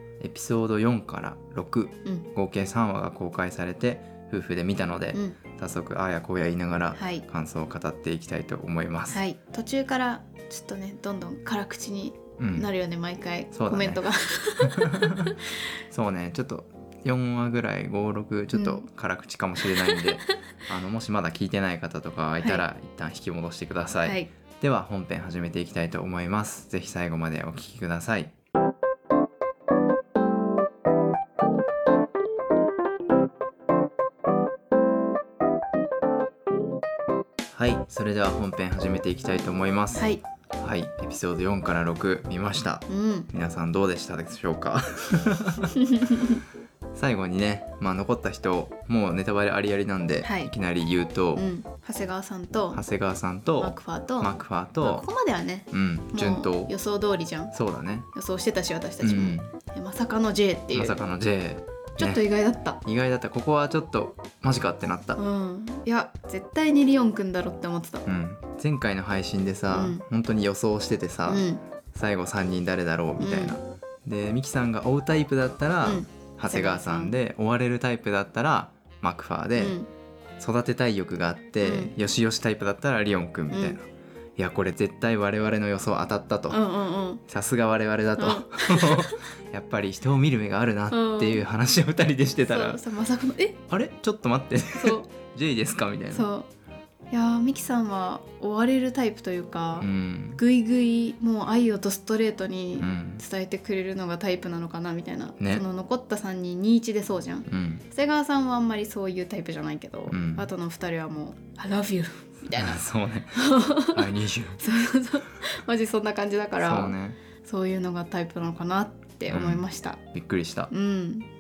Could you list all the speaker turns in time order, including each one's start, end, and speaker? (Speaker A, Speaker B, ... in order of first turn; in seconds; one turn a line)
Speaker A: 0.2-9.2
Speaker B: 7.0-7.2
Speaker B: 9.1-15.3
Speaker A: 12.4-12.7
Speaker A: 13.5-14.0
Speaker A: 14.6-15.3
Speaker A: 15.9-28.3
Speaker B: 18.5-18.9
Speaker B: 19.7-20.3
Speaker B: 24.0-24.3
Speaker A: 37.5-45.7
Speaker B: 40.0-40.2
Speaker B: 42.9-43.3
Speaker B: 45.7-46.4
Speaker A: 46.9-51.5
Speaker B: 50.2-50.5
Speaker B: 51.4-52.8
Speaker A: 52.7-55.1
Speaker B: 53.6-57.5
Speaker A: 55.7-56.7
Speaker A: 57.5-58.1
Speaker B: 58.1-61.0
Speaker A: 59.0-59.5
Speaker A: 60.7-62.2
Speaker B: 62.0-62.8
Speaker A: 62.8-65.2
Speaker B: 65.2-68.1
Speaker A: 68.1-79.8
Speaker B: 69.7-70.0
Speaker B: 71.3-71.6
Speaker B: 73.2-73.6
Speaker B: 75.8-77.2
Speaker B: 79.6-79.9
Speaker A: 80.4-83.9
Speaker B: 81.6-81.9
Speaker B: 83.5-83.8
Speaker A: 84.4-86.6
Speaker B: 86.5-87.2
Speaker A: 87.3-92.8
Speaker B: 88.2-89.2
Speaker B: 90.9-91.4
Speaker B: 92.5-93.6
Speaker A: 93.7-96.3
Speaker B: 94.7-95.1
Speaker B: 96.1-96.5
Speaker B: 97.1-112.8
Speaker A: 99.8-100.4
Speaker A: 102.8-103.2
Speaker A: 105.4-105.7
Speaker A: 107.5-107.8
Speaker A: 110.1-110.5
Speaker A: 112.5-114.6
Speaker B: 113.3-120.0
Speaker A: 116.6-117.2
Speaker A: 119.3-120.7
Speaker B: 120.7-121.3